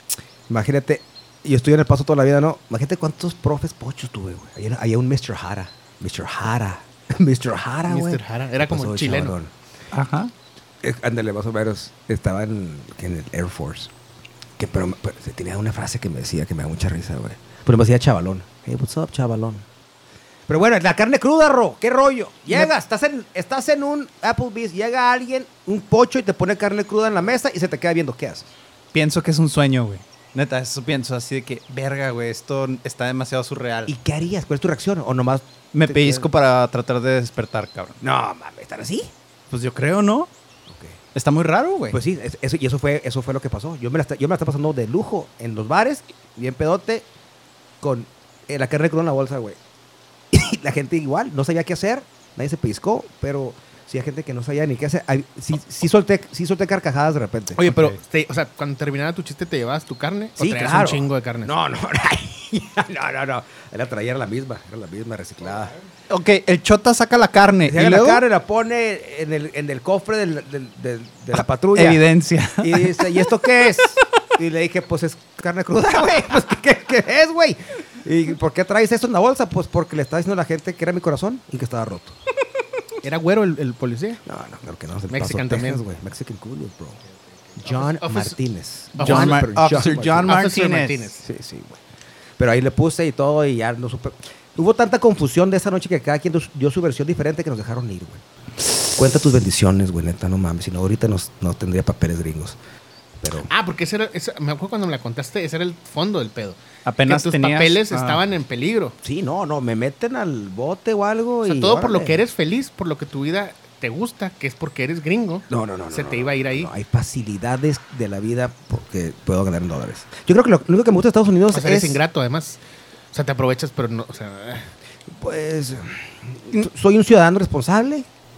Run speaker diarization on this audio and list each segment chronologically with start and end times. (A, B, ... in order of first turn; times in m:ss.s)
0:00.5-0:09.5 A
0:07.9-0:09.4 B
0:09.9-0:10.3 C
0:10.8-0:13.9 A
0:14.6-0:19.6 A
0:20.5-0:28.5 A
0:28.9-0:33.9 C
0:33.8-0:36.3 A
0:35.7-0:38.0 C
0:38.0-0:39.1 A
0:39.5-0:40.3 C
0:40.7-0:41.0 A
0:41.1-0:42.0 C
0:41.9-0:47.0 A
0:47.8-0:49.6 A
0:50.3-0:57.6 A
0:57.6-0:58.0 C
0:57.7-1:01.5 B
1:00.4-1:05.7 A
1:06.1-1:08.2 C
1:07.6-1:12.0 A
1:11.3-1:13.2 C
1:12.6-1:22.2 A
1:23.0-1:24.2 B
1:24.2-1:27.0 A
1:25.1-1:25.8 B
1:27.6-1:30.4 A
1:27.6-1:28.4 B
1:29.0-1:29.5 B
1:29.0-1:31.1 C
1:30.2-1:31.2 B
1:31.2-1:31.8 A
1:32.4-1:38.2 A
1:38.9-1:42.6 A
1:43.2-1:43.5 A
1:43.5-1:49.0 B
1:46.8-1:48.2 C
1:49.0-1:52.2 A
1:51.4-1:56.7 B
1:55.5-2:02.0 A
2:01.5-2:02.6 B
2:03.1-2:04.7 B
2:05.1-2:08.0 A